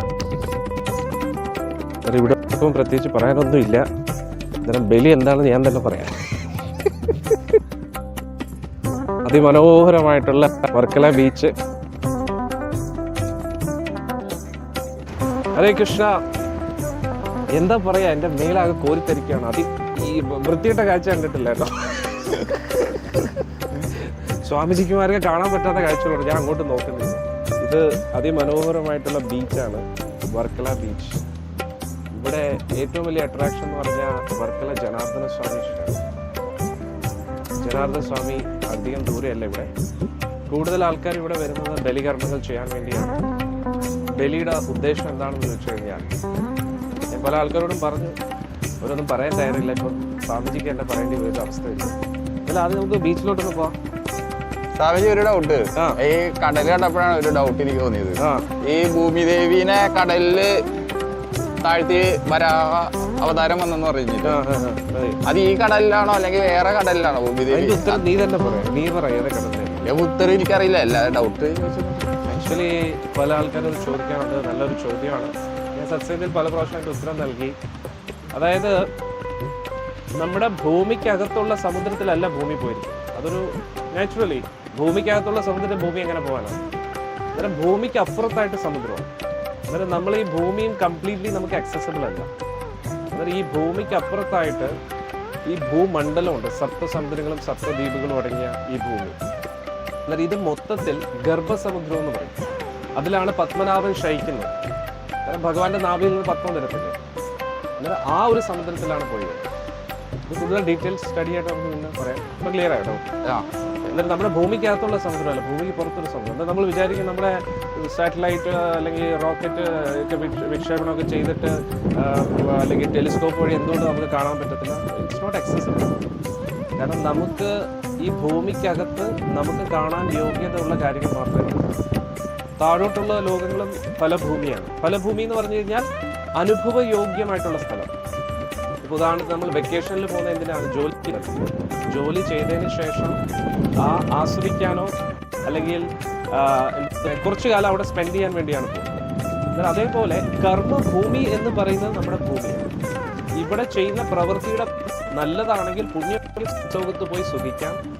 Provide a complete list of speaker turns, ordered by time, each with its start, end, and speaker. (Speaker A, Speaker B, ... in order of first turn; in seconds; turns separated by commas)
Speaker A: 2.0-3.9, Speaker A: 4.6-6.2, Speaker A: 9.2-11.5, Speaker A: 15.5-16.2, Speaker A: 17.5-31.2, Speaker A: 32.1-36.0, Speaker A: 37.6-39.7, Speaker A: 40.5-43.2, Speaker A: 44.1-46.1, Speaker A: 47.1-48.1, Speaker A: 48.8-53.7, Speaker B: 54.8-60.6, Speaker A: 55.7-56.0, Speaker A: 58.2-58.5, Speaker B: 61.6-64.4, Speaker A: 64.2-65.2, Speaker B: 65.2-68.0, Speaker A: 67.5-69.9, Speaker B: 69.8-72.2, Speaker A: 72.2-77.5, Speaker A: 78.3-78.8, Speaker A: 80.2-86.6, Speaker A: 87.3-89.1, Speaker A: 89.7-92.3, Speaker A: 93.1-94.7, Speaker A: 95.5-99.2, Speaker A: 100.1-102.4, Speaker A: 103.0-104.5, Speaker A: 105.2-107.0, Speaker A: 107.8-109.4, Speaker A: 110.3-113.0, Speaker A: 113.8-125.9, Speaker A: 126.8-131.7, Speaker A: 132.6-137.9, Speaker A: 138.8-141.3, Speaker A: 141.9-143.2, Speaker A: 143.8-144.9, Speaker A: 145.4-148.9, Speaker A: 149.5-152.7, Speaker A: 153.4-157.8